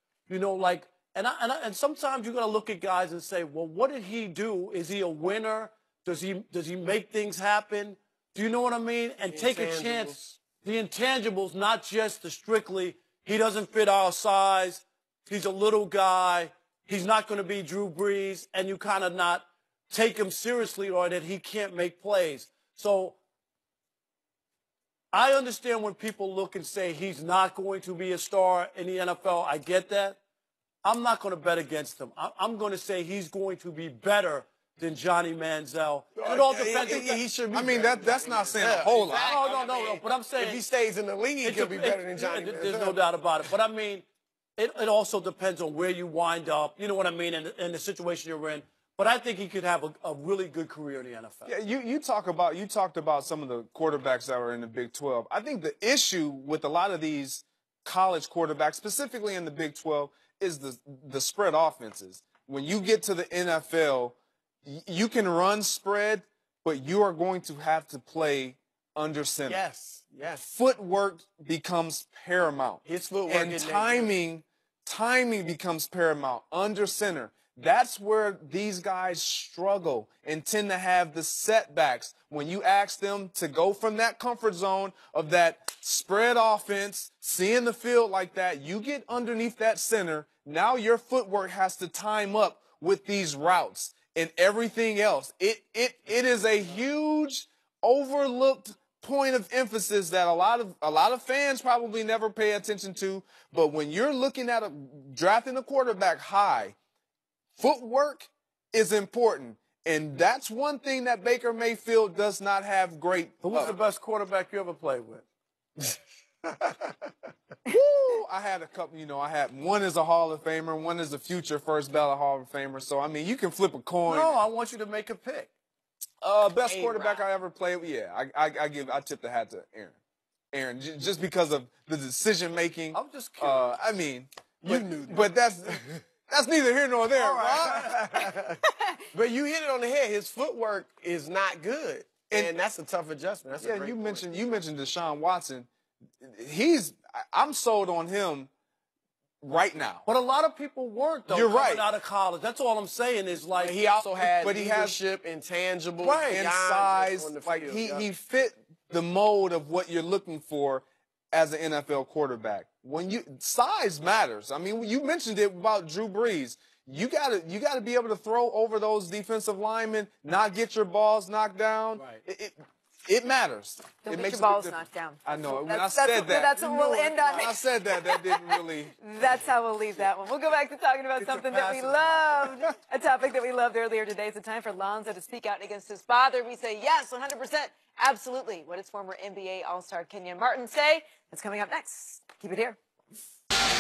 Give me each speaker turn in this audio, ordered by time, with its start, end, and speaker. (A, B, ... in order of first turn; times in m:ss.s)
0:00.3-0:23.2 A
0:09.3-0:10.2 B
0:25.1-0:30.2 A
0:30.8-0:37.2 A
0:36.2-0:43.0 B
0:36.8-0:39.4 C
0:39.0-0:40.6 A
0:41.4-0:44.1 A
0:44.6-0:51.5 A
0:51.5-1:09.6 C
1:09.5-1:10.5 B
1:10.4-1:46.8 C
1:12.8-1:14.1 B
1:47.6-1:53.8 C
1:53.4-1:55.2 A
1:56.4-1:56.9 B
1:57.7-2:04.4 C
2:04.1-2:05.5 A
2:06.2-2:10.0 C
2:06.6-2:07.2 B
2:10.5-2:18.0 C
2:12.9-2:13.7 A
2:14.6-2:15.8 B
2:17.3-2:18.6 B
2:19.1-2:24.4 B
2:23.6-2:25.7 C
2:26.2-2:28.5 C
2:29.4-2:30.0 C
2:30.1-2:33.8 A
2:31.3-2:31.9 C
2:33.6-2:38.1 B
2:34.2-2:35.0 C
2:36.0-2:36.5 A
2:36.3-2:56.6 C
2:52.0-2:52.2 A
2:54.0-3:12.8 D
2:56.6-2:57.5 A
2:57.3-2:59.0 C
3:01.2-3:02.7 A